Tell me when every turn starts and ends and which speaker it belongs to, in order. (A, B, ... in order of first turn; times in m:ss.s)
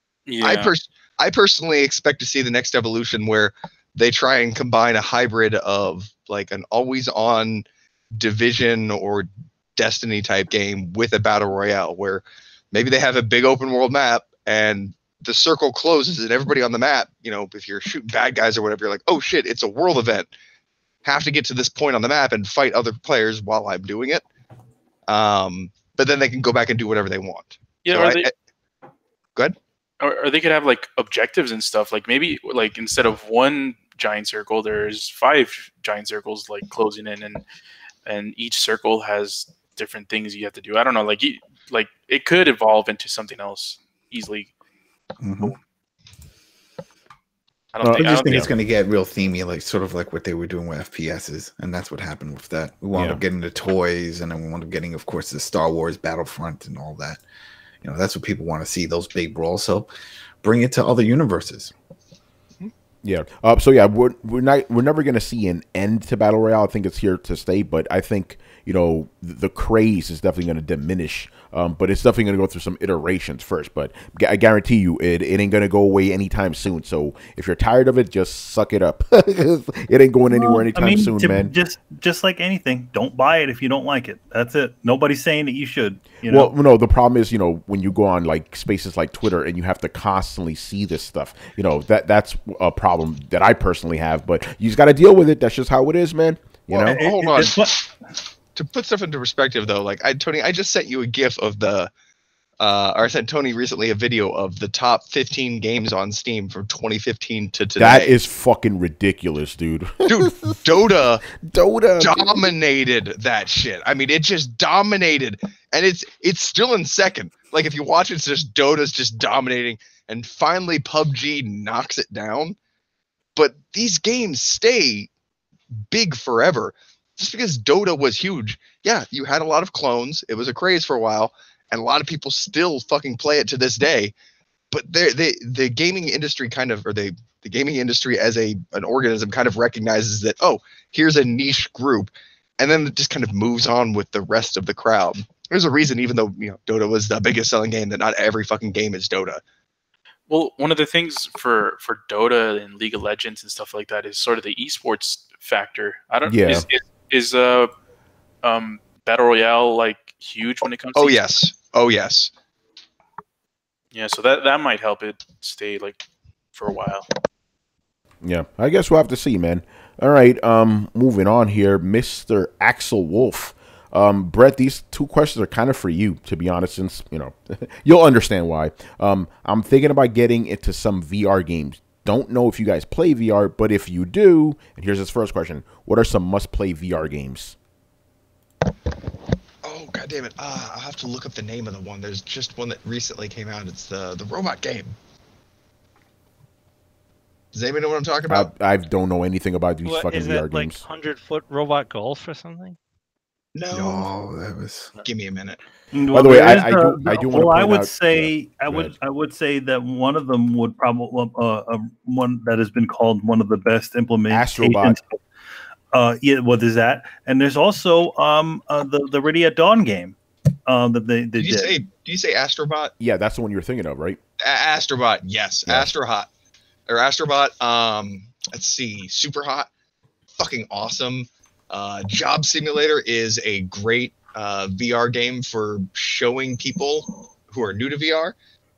0:00.2-0:00.7 A
0:00.4-0:20.3 B
0:21.0-0:24.2 B
0:25.1-0:28.3 B
0:27.8-0:28.3 A
0:30.0-0:37.4 A
0:38.0-0:44.5 A
0:45.2-0:45.6 C
0:47.8-0:48.5 A
0:47.8-0:57.2 C
0:47.9-0:48.5 D
0:53.0-0:53.2 D
0:57.8-0:59.9 C
1:00.4-1:01.7 C
1:03.0-1:21.5 D
1:20.3-1:26.5 E
1:26.2-1:37.0 D
1:36.7-1:37.9 B
1:36.8-1:37.8 E
1:38.5-1:41.9 B
1:42.6-1:48.1 B
1:47.8-1:50.6 D
1:50.1-1:51.2 B
1:51.3-1:52.5 D
1:52.0-2:02.6 B
2:03.4-2:05.1 B
2:05.9-2:14.1 B
2:14.7-2:29.4 B
2:30.3-2:37.7 A
2:36.2-2:36.6 D
2:38.4-2:41.2 A
2:41.0-2:42.3 B
2:43.9-2:46.0 A
2:46.5-2:47.1 A
2:48.2-3:07.6 D
3:09.6-3:15.0 B
3:17.5-3:18.5 B
3:18.3-3:20.8 D
3:19.8-3:22.8 F
3:23.5-3:24.1 B
3:23.7-3:24.9 C
3:25.0-3:25.6 B
3:25.9-3:35.2 E
3:26.1-3:28.9 D
3:34.3-3:35.0 D
3:35.9-3:41.8 E
3:41.4-3:42.9 B
3:43.0-3:44.2 D
3:44.4-3:46.3 B
3:46.9-3:49.7 B
3:50.4-3:58.4 B